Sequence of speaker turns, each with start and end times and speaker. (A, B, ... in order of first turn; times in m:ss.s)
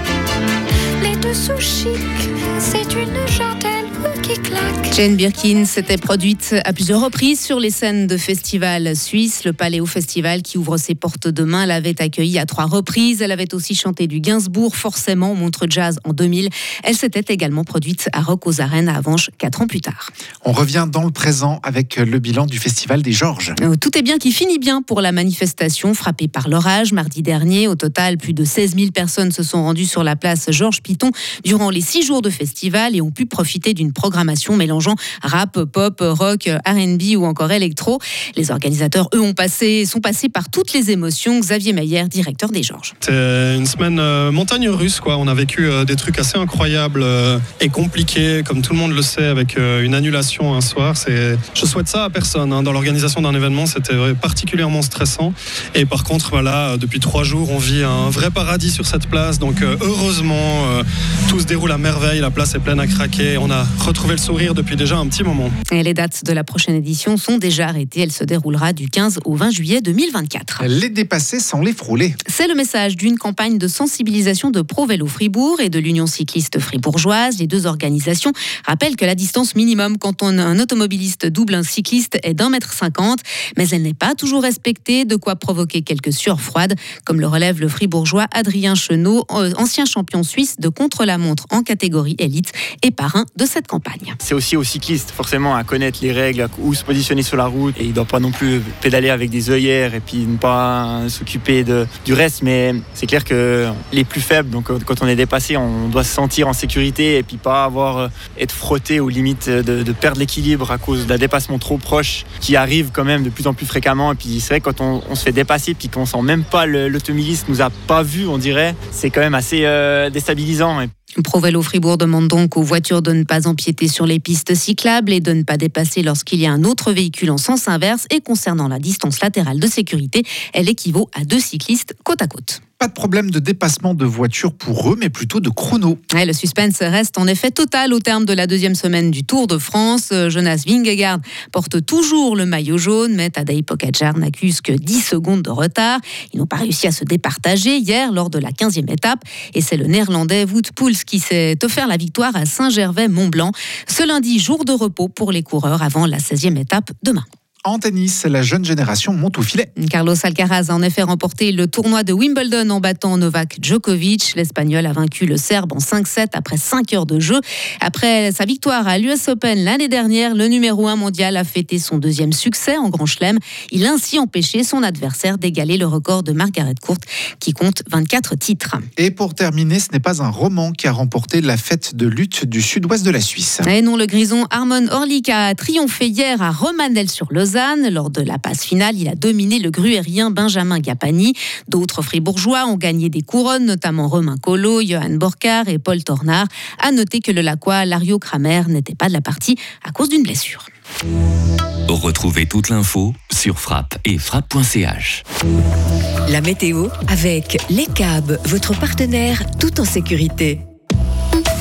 0:01.0-0:04.9 A
0:04.9-0:20.1 B
0:20.4-0:23.6 C
0:23.6-0:42.9 B
0:43.0-1:05.5 D
1:05.7-1:10.6 B
1:10.6-1:12.2 C
1:12.3-1:34.2 B
1:34.2-2:00.9 E
2:01.2-2:12.6 B
2:12.8-2:16.0 C
2:16.1-2:37.2 B
2:37.6-2:39.7 C
2:39.8-2:58.9 B
2:59.0-3:03.7 C
3:03.6-3:20.7 B
3:21.9-3:25.2 F
3:26.3-3:30.6 G